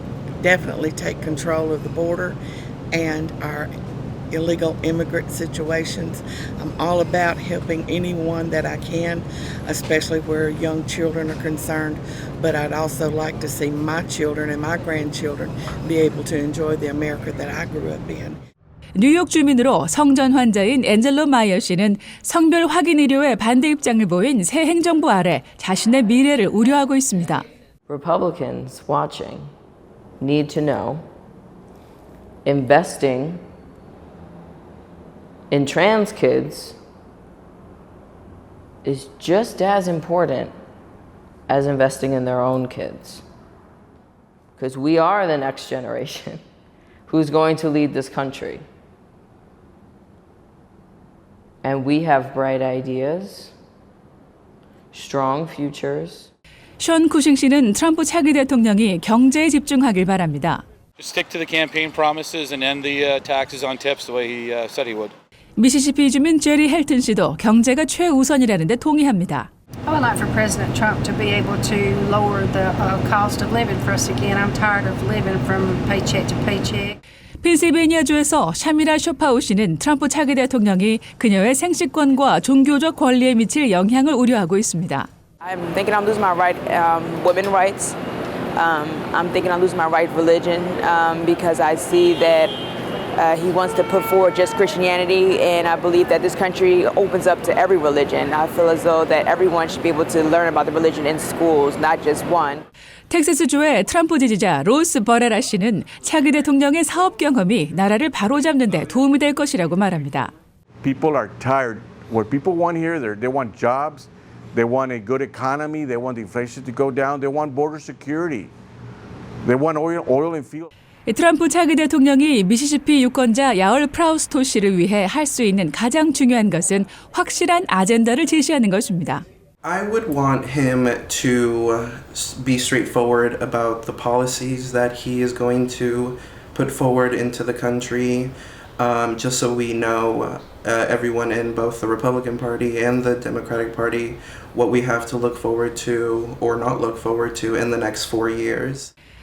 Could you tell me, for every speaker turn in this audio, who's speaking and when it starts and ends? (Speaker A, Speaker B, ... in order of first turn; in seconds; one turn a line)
Speaker A: 0.4-2.4
Speaker A: 2.9-3.7
Speaker A: 4.3-18.4
Speaker B: 19.0-27.4
Speaker C: 27.9-29.5
Speaker C: 30.2-31.0
Speaker C: 32.5-33.4
Speaker C: 35.5-36.8
Speaker C: 38.8-40.5
Speaker C: 41.5-43.2
Speaker C: 44.6-46.4
Speaker C: 47.1-48.6
Speaker C: 51.6-53.5
Speaker C: 54.9-56.3
Speaker B: 56.8-60.6
Speaker D: 61.0-65.1
Speaker B: 65.6-69.5
Speaker E: 69.9-77.0
Speaker B: 77.4-85.1
Speaker F: 85.4-88.0
Speaker F: 88.5-92.6
Speaker F: 93.1-102.6
Speaker B: 103.1-110.3
Speaker G: 110.8-118.5
Speaker G: 119.5-120.7
Speaker B: 121.1-129.2
Speaker H: 129.6-148.9